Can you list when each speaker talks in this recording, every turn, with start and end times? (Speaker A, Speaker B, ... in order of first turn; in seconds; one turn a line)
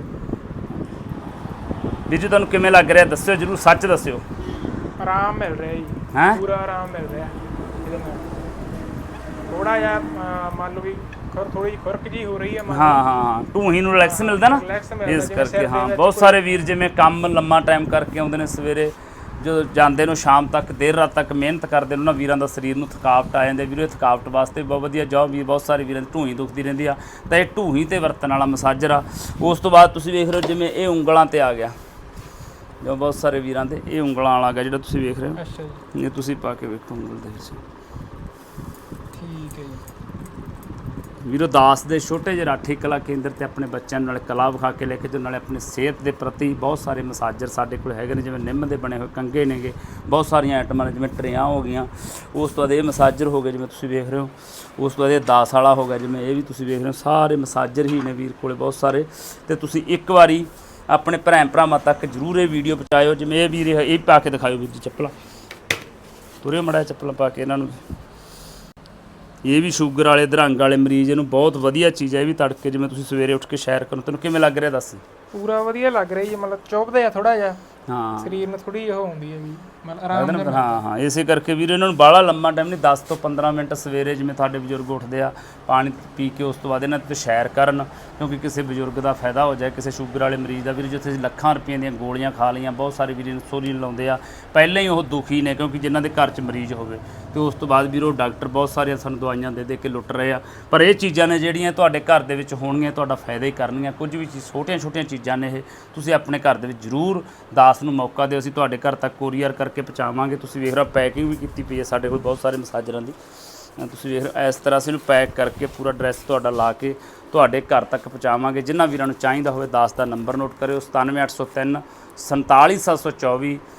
Speaker A: 2.1-4.2
Speaker B: 5.0-8.2
Speaker A: 6.1-6.4
Speaker B: 9.5-13.0
Speaker A: 12.7-31.7
Speaker B: 14.0-16.5
Speaker A: 32.8-35.4
Speaker B: 35.4-35.8
Speaker A: 35.9-37.6
Speaker B: 39.1-39.8
Speaker A: 41.2-65.1
Speaker A: 66.4-67.8
Speaker A: 69.4-75.0
Speaker B: 75.3-77.6
Speaker A: 77.9-78.4
Speaker B: 78.2-80.8
Speaker A: 80.1-113.2
Speaker A: 113.8-123.6